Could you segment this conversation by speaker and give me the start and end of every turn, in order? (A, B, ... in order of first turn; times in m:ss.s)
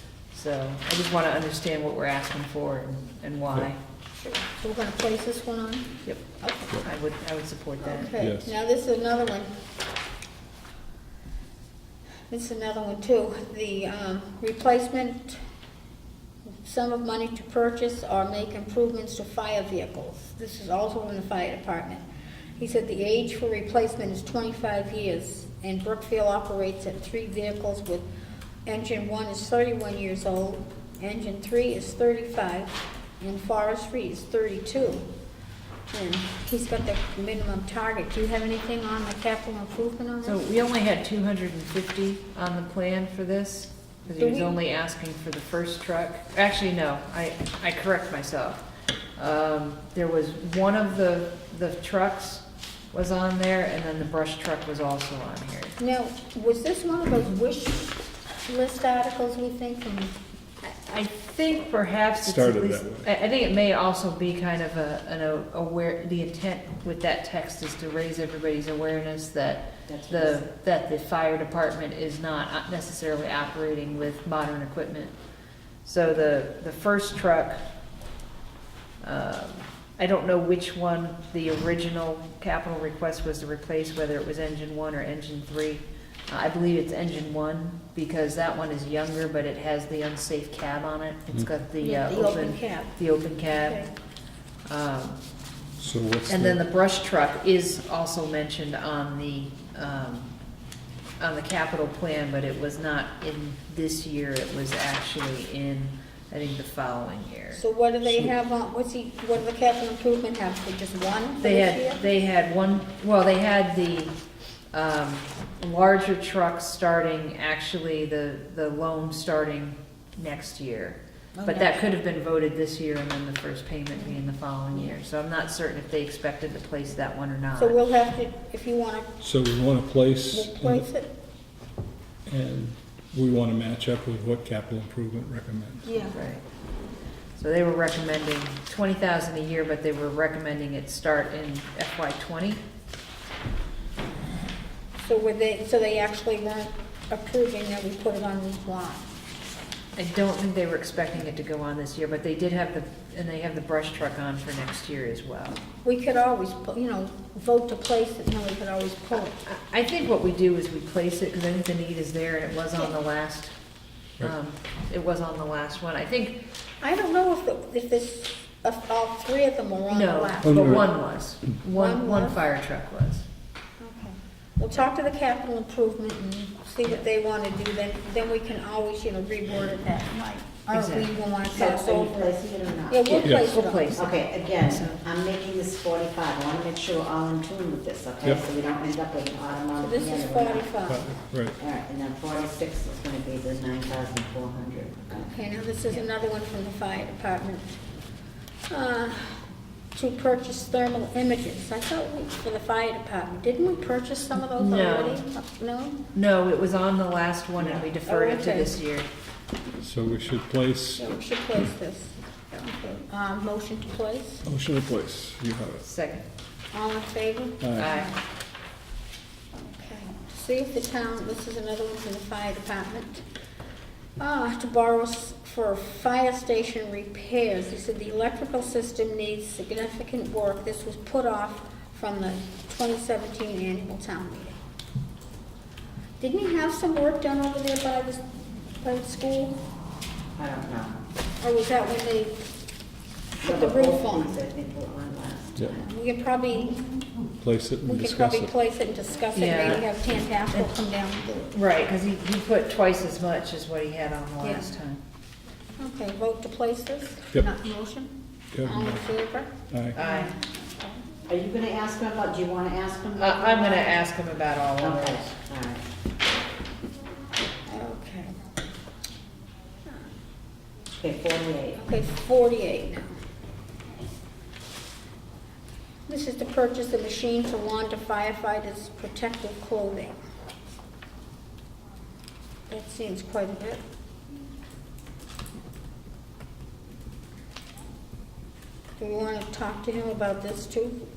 0:00.3-0:03.8 A
0:04.2-0:06.7 B
0:06.0-0:08.2 A
0:07.8-0:09.5 B
0:08.2-0:08.5 C
0:12.3-0:15.4 B
0:16.5-0:22.0 B
0:22.6-0:28.1 B
0:28.7-0:35.0 B
0:35.9-0:40.4 B
0:40.2-0:48.6 A
0:44.2-0:44.5 B
0:49.2-0:55.8 A
0:55.8-1:00.2 B
1:00.6-1:15.1 A
1:02.2-1:03.1 C
1:09.9-1:10.4 D
1:15.8-1:17.6 A
1:19.0-1:33.8 A
1:31.8-1:33.9 B
1:34.7-1:35.2 A
1:35.8-1:36.6 C
1:36.3-1:40.3 A
1:41.2-1:47.6 A
1:47.5-1:52.0 B
1:51.4-1:54.1 A
1:54.7-2:07.8 A
2:01.4-2:01.8 B
2:07.6-2:09.1 B
2:09.2-2:10.9 C
2:10.3-2:11.1 B
2:12.2-2:15.9 C
2:15.8-2:16.2 B
2:16.1-2:16.4 A
2:17.4-2:22.6 A
2:25.0-2:29.1 B
2:30.0-2:35.6 A
2:35.8-2:39.4 B
2:39.4-2:43.5 A
2:44.2-2:46.4 A
2:46.8-2:50.9 B
2:49.9-2:53.2 A
2:50.4-2:50.8 C
2:51.7-2:52.4 B
2:53.8-3:04.0 B
3:00.7-3:01.1 A
3:01.5-3:03.3 D
3:03.1-3:05.0 A
3:03.2-3:03.5 C
3:03.9-3:10.8 D
3:09.8-3:11.1 B
3:10.9-3:11.5 C
3:11.6-3:15.2 D
3:15.1-3:17.8 B
3:18.7-3:19.4 B
3:19.9-3:26.0 B
3:24.5-3:25.2 A
3:26.1-3:29.1 A
3:27.6-3:27.8 D
3:28.0-3:28.8 B
3:29.8-3:31.1 C
3:31.0-3:34.4 B
3:34.4-3:35.8 C
3:35.8-3:36.2 A
3:36.7-3:38.1 B
3:37.6-3:37.9 C
3:37.8-3:38.1 A
3:39.5-3:43.2 B
3:44.2-3:54.6 B
3:56.2-3:58.2 B
3:58.8-3:59.6 B
4:00.4-4:01.0 D
4:01.4-4:02.4 B
4:03.4-4:04.4 B
4:03.4-4:05.9 D
4:05.8-4:06.8 B
4:07.4-4:08.5 C
4:07.8-4:11.6 B
4:09.3-4:09.8 A
4:11.5-4:15.0 A
4:15.8-4:21.0 B
4:18.5-4:19.0 C
4:19.7-4:20.0 C
4:19.9-4:20.3 A
4:21.3-4:23.9 D
4:23.2-4:25.3 A
4:24.8-4:25.9 D
4:27.7-4:28.3 B
4:31.0-4:31.8 D
4:31.8-4:33.1 B
4:36.1-4:40.2 B
4:42.7-4:43.8 B
4:49.0-4:51.1 B